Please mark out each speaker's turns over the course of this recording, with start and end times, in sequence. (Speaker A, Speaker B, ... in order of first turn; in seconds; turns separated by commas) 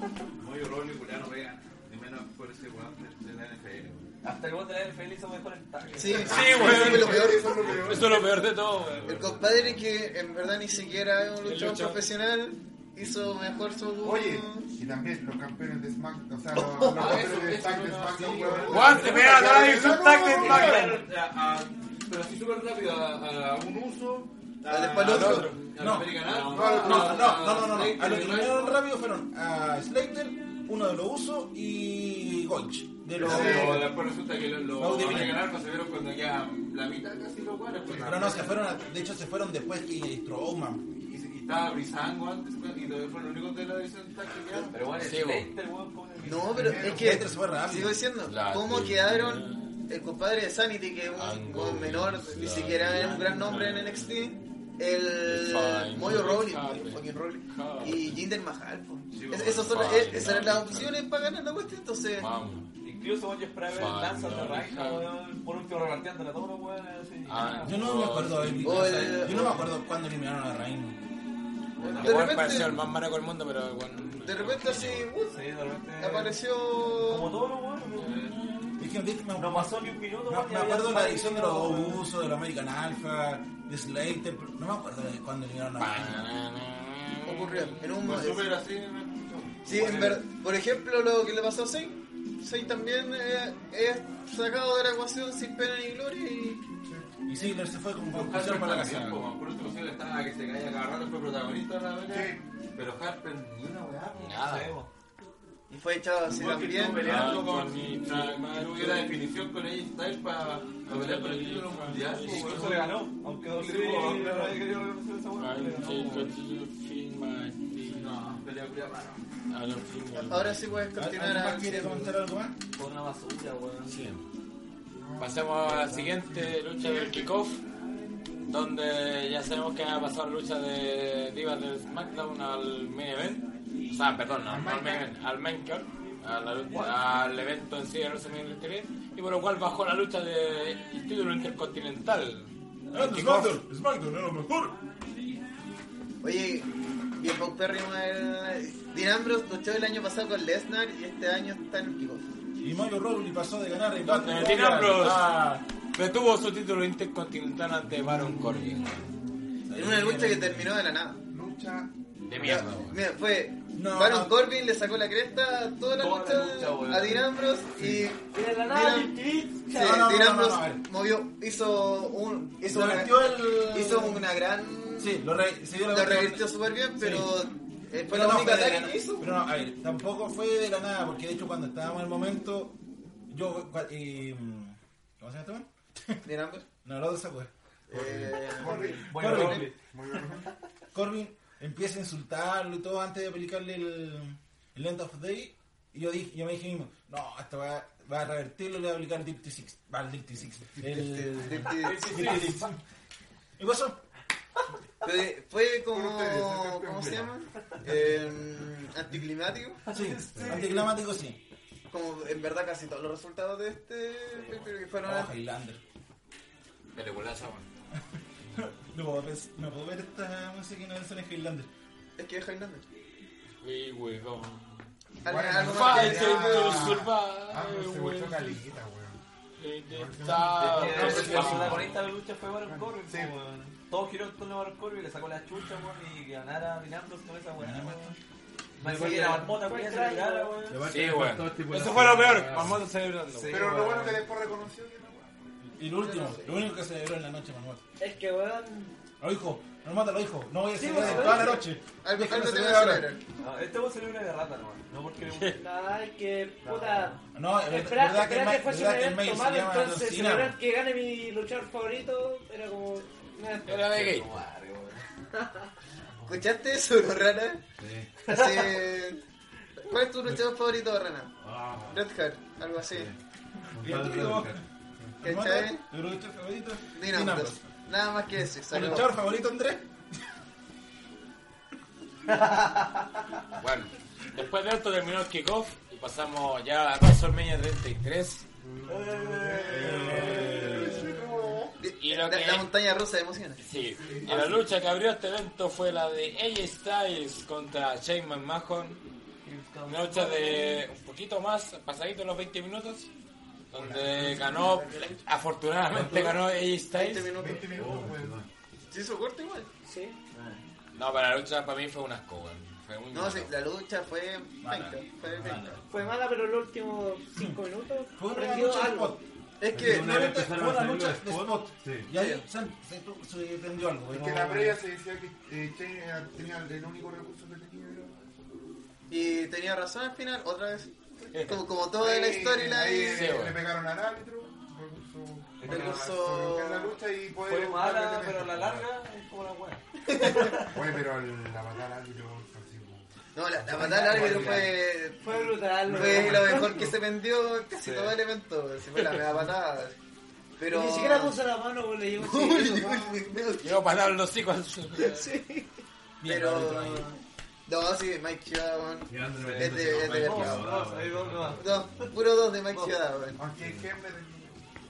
Speaker A: 0.4-4.1, Speaker B: 4.2-6.5, Speaker C: 6.0-7.7, Speaker A: 6.1-9.8, Speaker D: 6.2-9.2, Speaker E: 6.3-8.2, Speaker C: 9.1-14.7, Speaker D: 11.4-12.0, Speaker E: 14.0-20.9, Speaker C: 16.5-17.2, Speaker A: 16.8-28.8, Speaker F: 18.2-18.6, Speaker C: 18.6-19.0, Speaker D: 18.7-20.9, Speaker C: 24.7-25.6, Speaker D: 25.0-25.6, Speaker F: 25.8-33.9, Speaker D: 26.2-26.8, Speaker E: 26.4-27.4, Speaker A: 33.2-38.6, Speaker E: 33.2-33.8, Speaker F: 34.7-35.4, Speaker E: 37.9-38.2, Speaker F: 38.0-40.8, Speaker A: 41.0-44.8, Speaker B: 44.5-46.8, Speaker D: 45.0-45.5, Speaker C: 46.2-62.3, Speaker E: 46.5-47.3, Speaker F: 46.7-48.0, Speaker D: 48.2-49.7, Speaker D: 51.1-54.1, Speaker F: 52.9-53.4, Speaker D: 55.2-58.2, Speaker A: 59.1-60.9, Speaker D: 59.6-60.9, Speaker D: 62.2-62.7, Speaker B: 62.8-68.1, Speaker D: 63.7-65.1, Speaker D: 67.2-69.2, Speaker F: 67.6-71.0, Speaker C: 68.6-69.6, Speaker A: 71.8-72.5, Speaker B: 71.8-72.4, Speaker C: 72.0-72.8, Speaker D: 72.0-75.1, Speaker C: 74.2-75.4, Speaker B: 75.3-76.4, Speaker C: 76.0-77.3, Speaker B: 77.0-78.2, Speaker A: 78.0-78.3, Speaker F: 78.8-86.3, Speaker B: 79.3-82.0, Speaker D: 85.8-87.8, Speaker C: 87.2-88.5, Speaker A: 88.0-90.2, Speaker C: 89.6-96.7, Speaker F: 97.2-99.2, Speaker A: 98.1-104.4, Speaker E: 102.0-102.4, Speaker D: 104.1-104.8, Speaker B: 104.4-104.9, Speaker C: 105.7-107.3, Speaker A: 106.3-113.0, Speaker D: 107.0-109.1, Speaker D: 110.8-112.9, Speaker B: 112.2-116.3, Speaker A: 113.6-114.6, Speaker D: 115.4-118.1, Speaker A: 117.9-119.2, Speaker D: 119.5-120.6, Speaker C: 120.1-122.1, Speaker F: 121.0-122.5, Speaker B: 122.8-124.0, Speaker D: 123.8-124.2, Speaker E: 125.0-127.3, Speaker D: 125.2-127.6, Speaker D: 128.5-143.5, Speaker E: 134.4-135.1, Speaker F: 142.9-144.8, Speaker C: 146.2-146.7, Speaker C: 147.2-152.2, Speaker F: 152.6-155.5, Speaker D: 154.0-159.1, Speaker F: 159.7-160.7, Speaker C: 159.7-161.2, Speaker E: 161.3-161.9, Speaker D: 162.2-163.0, Speaker C: 162.3-169.1, Speaker F: 163.7-164.3, Speaker B: 165.9-167.3, Speaker G: 168.3-170.0, Speaker C: 169.7-175.2, Speaker F: 169.7-170.8, Speaker F: 172.6-174.2, Speaker F: 175.0-176.4, Speaker C: 175.9-179.3, Speaker F: 177.0-177.3, Speaker F: 178.1-182.8, Speaker F: 183.3-186.2, Speaker C: 186.2-186.7, Speaker F: 186.8-188.3, Speaker C: 187.9-189.7, Speaker E: 188.3-189.2, Speaker B: 188.7-189.8, Speaker F: 189.1-189.7, Speaker E: 189.7-190.5, Speaker F: 190.9-202.8, Speaker C: 200.9-202.4, Speaker B: 201.8-202.6, Speaker F: 203.6-204.0, Speaker C: 205.0-209.8, Speaker E: 205.9-207.3, Speaker B: 209.9-210.9, Speaker F: 209.9-211.4, Speaker C: 211.9-215.3, Speaker B: 214.4-214.6, Speaker F: 215.0-215.8, Speaker D: 216.9-217.7, Speaker F: 218.5-221.7, Speaker C: 222.2-222.8, Speaker D: 223.6-224.9, Speaker C: 225.2-226.9, Speaker E: 225.2-229.2, Speaker D: 225.6-228.6, Speaker D: 229.6-231.9, Speaker E: 229.9-230.9, Speaker B: 230.6-238.2, Speaker A: 230.7-231.9, Speaker F: 230.9-231.8, Speaker E: 232.6-233.3, Speaker F: 237.6-238.2, Speaker B: 238.8-240.8, Speaker A: 238.8-239.2, Speaker G: 239.3-240.6, Speaker A: 240.7-242.8, Speaker D: 240.9-243.6, Speaker B: 243.3-244.2, Speaker E: 243.5-245.7, Speaker F: 245.7-247.8, Speaker C: 246.0-246.4, Speaker G: 248.0-248.9, Speaker F: 249.2-253.1, Speaker G: 250.7-251.7, Speaker C: 252.0-253.2, Speaker B: 253.4-255.6, Speaker D: 255.3-255.6, Speaker G: 255.5-263.9, Speaker F: 257.3-260.6, Speaker D: 263.6-264.3, Speaker B: 263.8-265.0, Speaker G: 265.4-265.7, Speaker E: 266.1-266.4, Speaker C: 266.3-267.6, Speaker A: 267.8-268.1, Speaker B: 268.3-268.9, Speaker C: 268.3-269.2, Speaker C: 269.8-271.3, Speaker A: 271.4-272.0, Speaker C: 271.9-273.1, Speaker A: 272.9-273.1, Speaker A: 273.7-274.6, Speaker F: 273.8-274.6, Speaker F: 275.2-277.6, Speaker C: 275.2-275.8, Speaker C: 276.9-279.1, Speaker F: 278.7-279.9, Speaker B: 282.3-283.0, Speaker D: 283.6-288.4, Speaker E: 288.6-291.8, Speaker B: 288.9-291.2, Speaker F: 289.7-291.1, Speaker A: 289.7-290.7, Speaker C: 291.8-293.6, Speaker D: 292.0-292.7, Speaker D: 293.6-299.0, Speaker E: 294.0-294.6, Speaker B: 299.4-300.8, Speaker D: 299.8-303.1, Speaker D: 303.7-307.3, Speaker E: 303.7-305.2, Speaker A: 305.9-306.4, Speaker C: 306.9-307.7, Speaker E: 307.3-308.4, Speaker A: 307.7-308.4, Speaker C: 308.9-309.7, Speaker G: 309.8-310.2, Speaker A: 310.3-310.6, Speaker D: 310.9-313.5, Speaker C: 313.1-315.8, Speaker F: 314.6-315.8, Speaker G: 315.9-319.2, Speaker F: 318.1-319.2, Speaker C: 319.6-320.1, Speaker A: 319.7-322.1, Speaker F: 319.7-324.8, Speaker C: 322.1-322.4, Speaker E: 324.1-328.2, Speaker C: 329.1-333.3, Speaker D: 331.3-331.6, Speaker E: 331.9-338.6, Speaker D: 333.0-333.6, Speaker B: 335.6-336.1, Speaker C: 335.6-337.0, Speaker A: 335.6-336.0, Speaker B: 337.4-340.7, Speaker A: 338.5-338.8, Speaker C: 340.1-340.6, Speaker E: 340.6-343.1, Speaker C: 343.3-349.9, Speaker E: 343.7-344.5, Speaker B: 343.7-344.7, Speaker A: 343.8-344.7, Speaker G: 345.2-346.9, Speaker E: 345.9-346.9, Speaker B: 347.9-348.1, Speaker C: 350.6-351.4, Speaker G: 350.6-353.2, Speaker C: 352.1-353.8, Speaker D: 353.6-355.3, Speaker G: 354.9-355.7, Speaker F: 356.2-357.1, Speaker C: 356.2-360.7, Speaker A: 359.1-361.7, Speaker B: 359.3-361.7, Speaker C: 361.6-363.4, Speaker E: 363.4-364.6, Speaker A: 363.5-363.9